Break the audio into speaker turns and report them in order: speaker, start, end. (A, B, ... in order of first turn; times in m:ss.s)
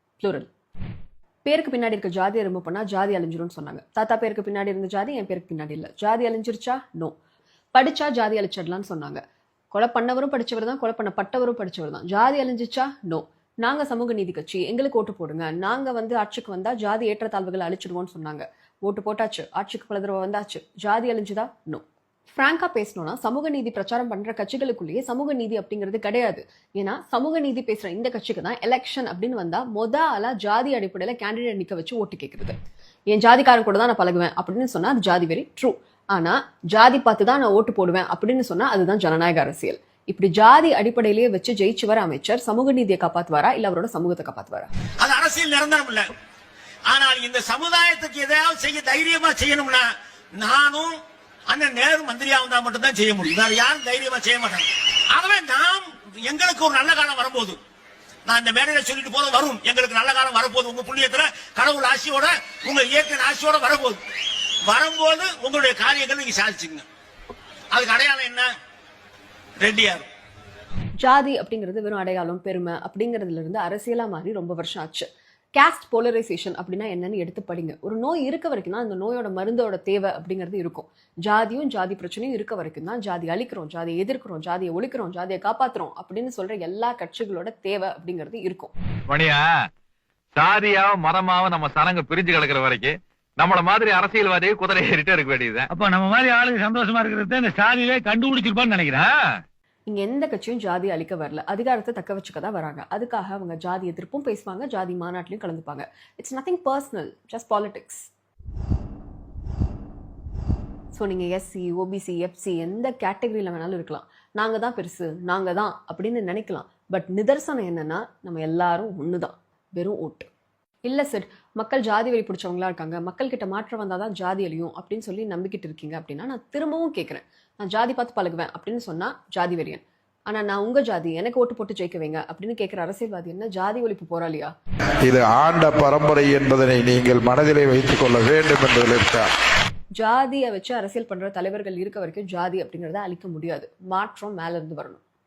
0:00.2-0:00.5 A
0:01.5-0:07.2 A
0:07.8-0:21.8 A
0:22.3-0:32.6 A
0:33.1-0:44.7 A
0:45.0-0:46.1 B
0:46.9-0:51.0 B
0:51.5-0:57.6 B
0:58.3-1:04.0 B
1:04.7-1:06.8 B
1:07.7-1:08.5 B
1:09.6-1:10.1 B
1:11.0-1:28.7 A
1:29.1-1:29.4 C
1:30.3-1:35.7 C
1:35.7-1:39.0 D
1:39.9-1:48.1 A
1:50.9-2:00.3 A
2:00.8-2:14.5 A
2:15.0-2:19.3 E
2:20.0-2:25.0 A